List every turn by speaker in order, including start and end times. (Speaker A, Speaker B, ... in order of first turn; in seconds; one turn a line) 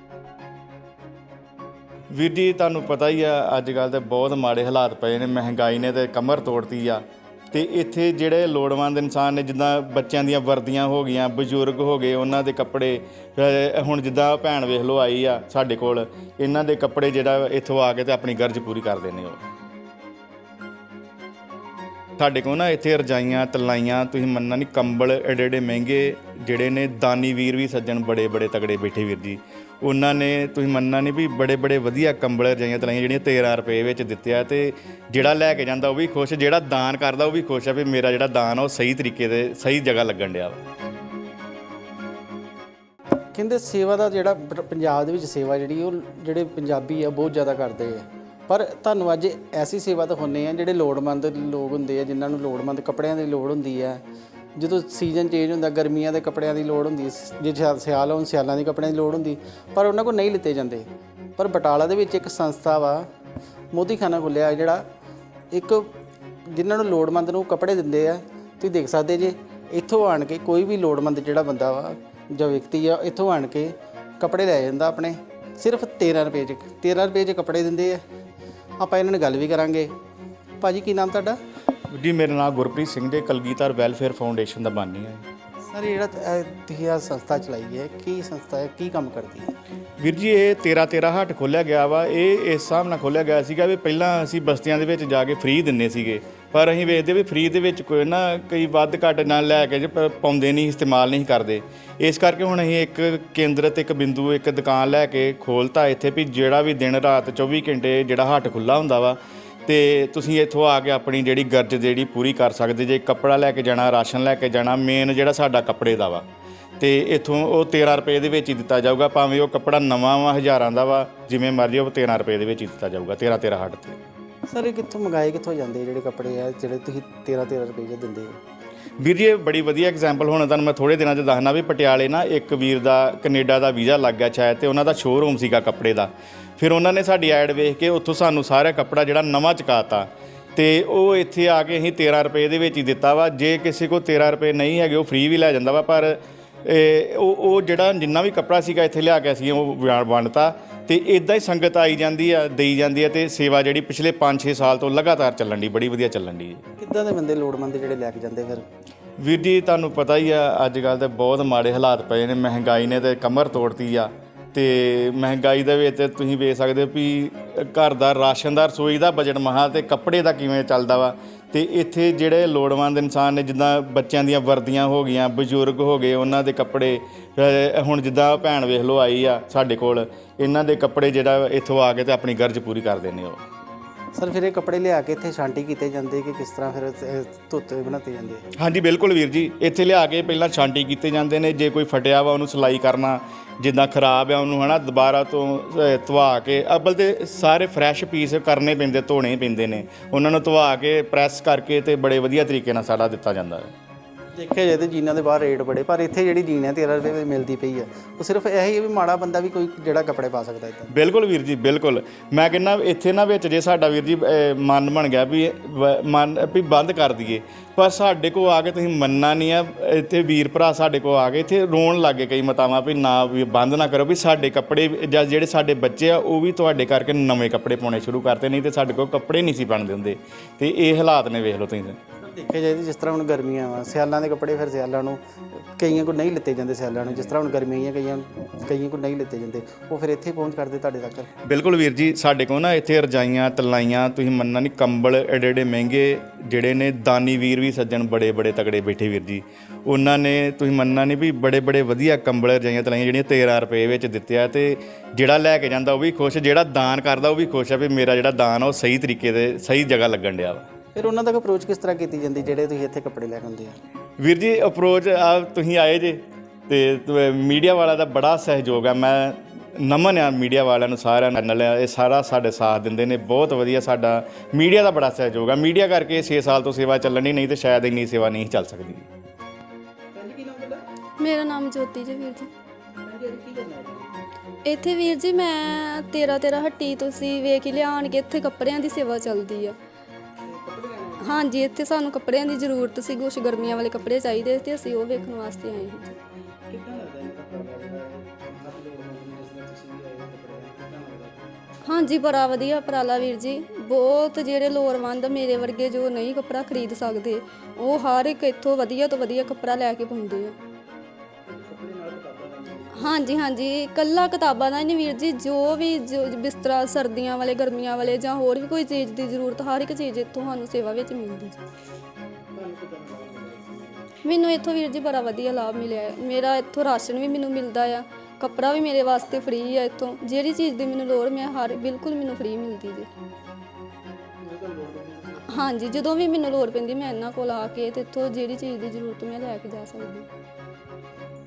Speaker A: 2.1-19.4
Speaker A: 22.2-40.6
Speaker B: 43.4-54.0
Speaker B: 54.6-63.1
Speaker B: 63.7-64.8
Speaker B: 65.5-65.9
Speaker B: 66.5-78.0
Speaker B: 78.8-79.9
Speaker B: 80.6-81.4
Speaker A: 81.9-85.3
Speaker B: 85.7-89.5
Speaker A: 90.0-116.2
Speaker A: 116.8-124.0
Speaker B: 124.5-128.4
Speaker A: 129.0-156.6
Speaker B: 156.8-158.7
Speaker A: 159.2-183.4
Speaker B: 184.1-188.4
Speaker A: 188.6-203.7
Speaker B: 204.3-210.9
Speaker A: 210.9-232.0
Speaker B: 232.2-241.3
Speaker A: 241.4-260.7
Speaker B: 260.9-263.8
Speaker A: 264.2-279.1
Speaker B: 280.1-280.8
Speaker C: 281.2-282.5
Speaker B: 283.0-284.2
Speaker C: 284.6-289.8
Speaker B: 290.5-291.4
Speaker C: 291.2-296.2
Speaker B: 296.7-301.5
Speaker C: 301.9-310.6
Speaker B: 311.5-313.4
Speaker C: 312.9-321.6
Speaker B: 322.6-324.1
Speaker C: 324.2-333.1
Speaker B: 334.4-335.7
Speaker C: 335.5-340.3